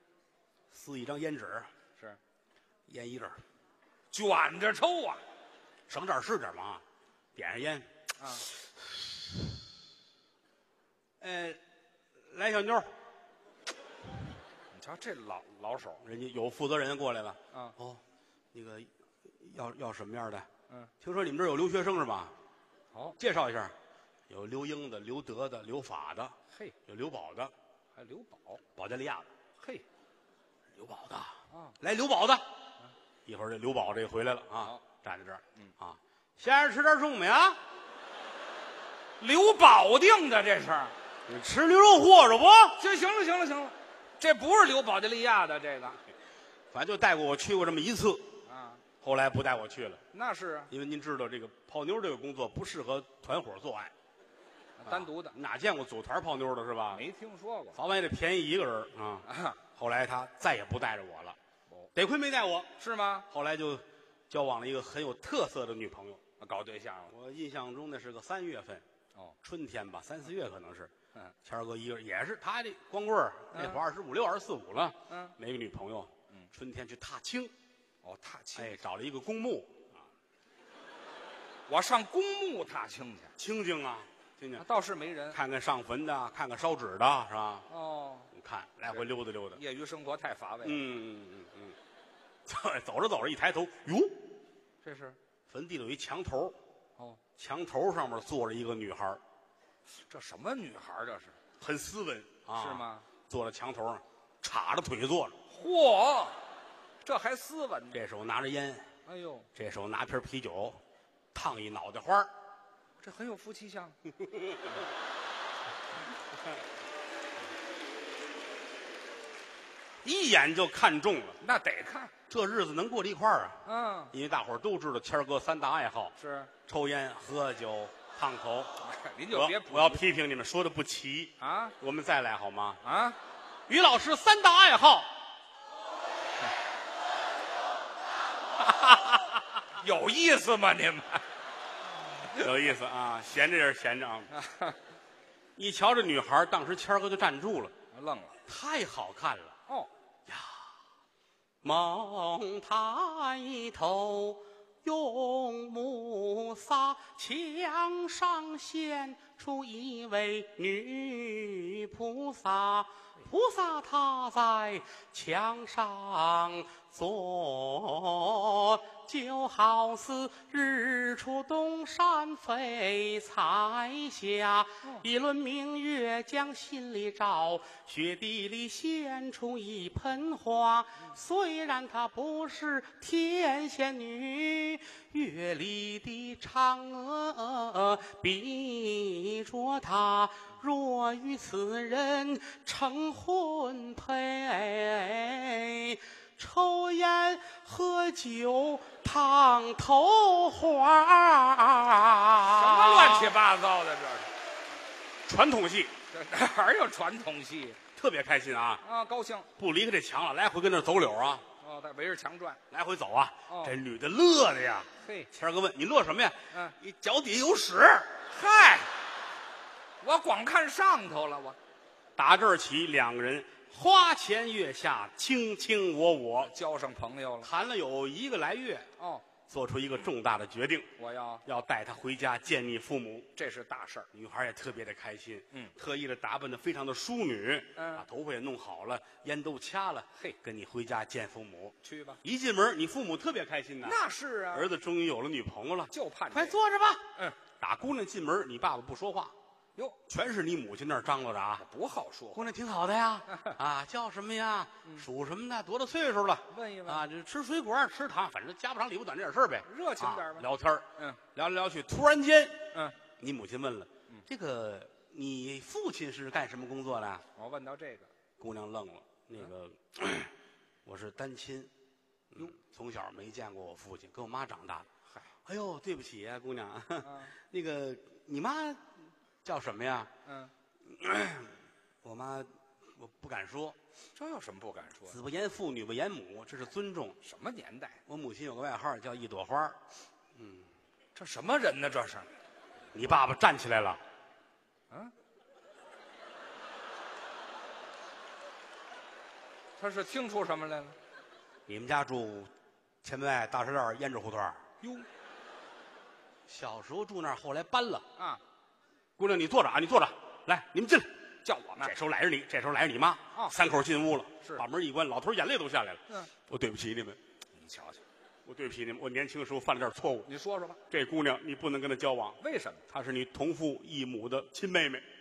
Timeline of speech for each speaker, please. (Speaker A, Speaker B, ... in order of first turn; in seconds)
Speaker A: 0.7-1.7, 2.9-3.4, 5.9-6.8, 7.3-7.9, 8.5-9.4, 11.2-11.6, 12.2-12.9, 16.0-18.0, 18.5-20.5, 21.0-22.3, 23.2-23.7, 24.3-27.5, 28.7-29.3, 30.7-32.4, 33.2-37.6, 41.3-42.8, 46.7-48.2, 49.0-50.0, 50.7-53.9, 54.9-57.0, 57.7-61.4, 61.9-62.7, 63.3-66.2, 67.1-68.8, 69.4-70.9, 71.4-77.5, 78.5-80.0, 83.4-84.6, 85.3-87.7, 88.3-89.6, 90.6-91.8, 92.5-94.3, 95.5-96.6, 97.4-99.2, 101.6-105.3, 107.9-108.9, 109.5-110.8, 111.3-112.3, 120.0-121.4, 122.3-128.7, 129.3-132.8, 133.7-135.1, 138.7-139.2, 142.3-144.3, 145.5-147.7, 148.4-149.6, 150.3-150.6, 151.6-203.3, 205.2-205.9, 207.9-208.8, 209.6-211.4, 212.7-218.2, 222.2-226.5, 227.4-228.9, 229.4-230.9, 231.4-233.3, 234.1-247.0, 247.6-249.3, 250.1-251.6, 252.3-267.2, 268.4-270.3, 270.8-271.7, 272.3-274.9, 275.4-280.1, 280.8-283.8, 285.1-287.2, 288.1-289.8, 290.3-290.7, 292.9-294.0, 301.7-302.5, 303.0-304.6, 306.5-308.1, 309.2-311.1, 311.8-317.2, 318.4-320.3, 320.9-325.1
Speaker B: 4.1-5.2, 8.2-8.5, 14.7-16.0, 22.9-23.2, 27.9-28.6, 29.6-29.8, 31.5-31.8, 39.2-40.9, 42.8-46.0, 48.5-48.8, 50.1-50.7, 54.8-55.4, 56.9-57.8, 59.2-59.6, 62.8-63.3, 66.4-67.1, 73.5-73.8, 75.1-75.3, 78.0-78.8, 81.7-83.3, 84.6-85.4, 87.7-88.3, 88.9-90.8, 94.8-95.2, 99.9-101.4, 102.5-103.1, 105.5-106.4, 107.0-108.0, 109.0-109.5, 113.0-114.0, 121.4-122.1, 123.6-124.1, 126.2-126.5, 128.8-130.0, 131.4-131.7, 132.8-133.2, 139.8-141.2, 144.3-144.8, 147.9-148.4, 202.4-204.3, 206.1-207.8, 208.8-209.5, 211.6-212.6, 213.5-213.7, 215.0-215.3, 218.3-218.9, 220.0-221.6, 226.4-227.5, 229.0-229.2, 231.0-231.4, 233.3-234.1, 237.8-238.1, 241.8-242.2, 243.8-244.7, 245.9-246.6, 251.6-252.5, 253.3-253.6, 256.5-257.0, 259.6-261.2, 267.4-268.1, 277.0-277.3, 280.2-280.5, 284.1-285.2, 287.2-288.0, 291.1-292.3, 299.8-300.9, 311.4-311.9, 317.5-318.0, 320.2-320.8, 322.4-322.8